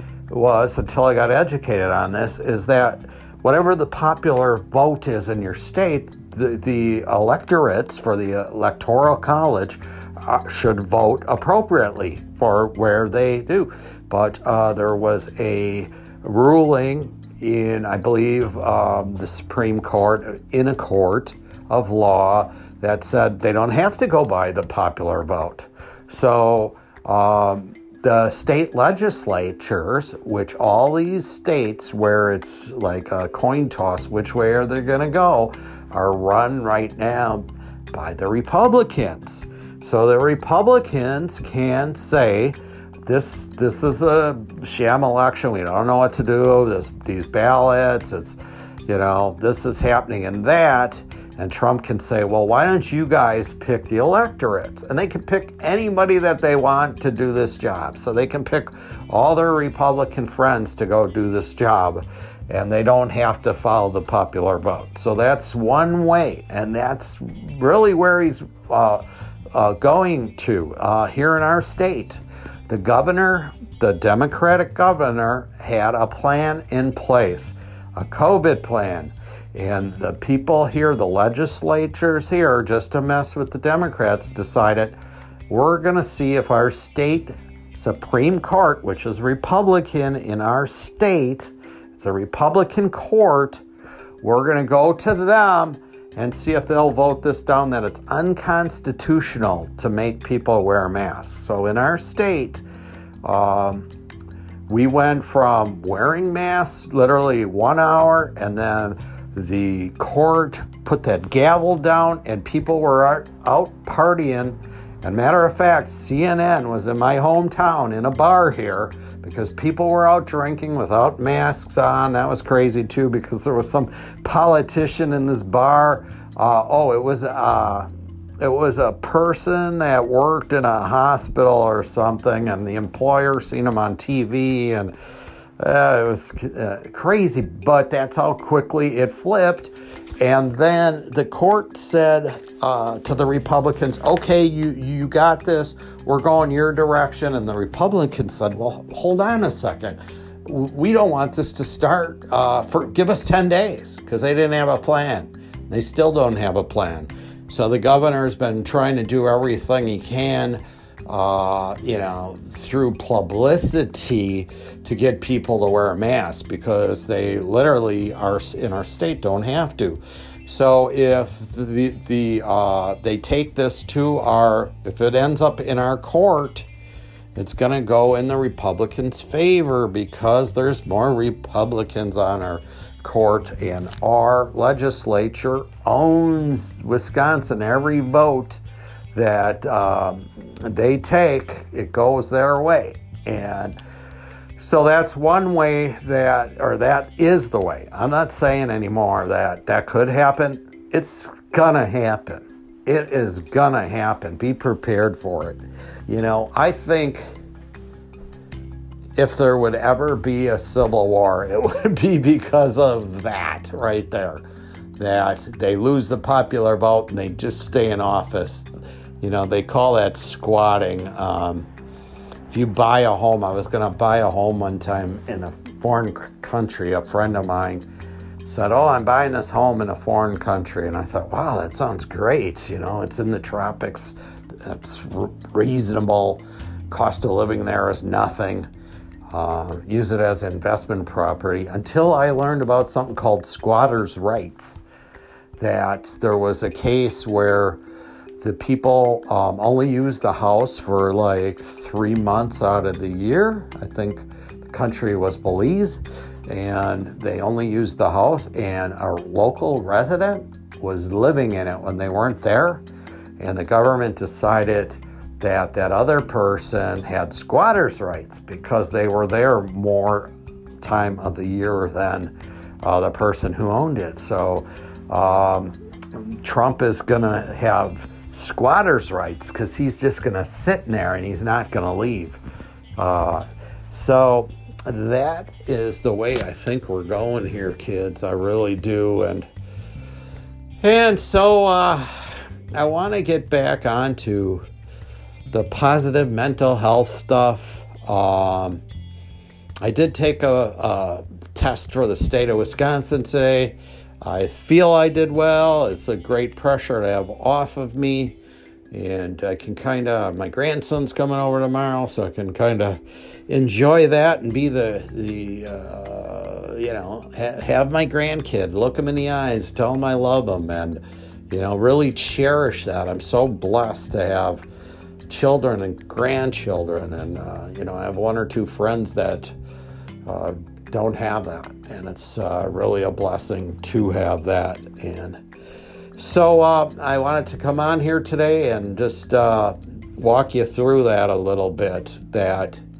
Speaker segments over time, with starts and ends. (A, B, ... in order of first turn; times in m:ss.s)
0:00.3-1:25.0 A
1:25.5-1:33.6 A
1:34.2-1:42.6 A
1:43.2-1:43.9 A
1:44.7-2:07.9 A
2:08.4-2:14.9 A
2:15.6-2:56.7 A
2:57.4-3:08.6 A
3:09.1-3:13.8 A
3:14.6-3:27.2 A
3:29.2-3:34.4 A
3:35.0-3:38.6 A
3:39.2-3:41.7 A
3:42.5-3:47.8 A
3:48.4-3:58.7 A
3:59.3-4:04.8 A
4:05.6-4:07.8 A
4:08.4-4:22.8 A
4:23.4-4:42.4 A
4:43.0-4:49.5 A
4:50.8-4:54.7 A
4:55.5-4:58.8 A
4:59.8-5:08.4 A
5:08.9-5:24.6 A
5:25.3-5:29.5 A
5:30.2-5:35.4 A
5:36.2-5:42.8 A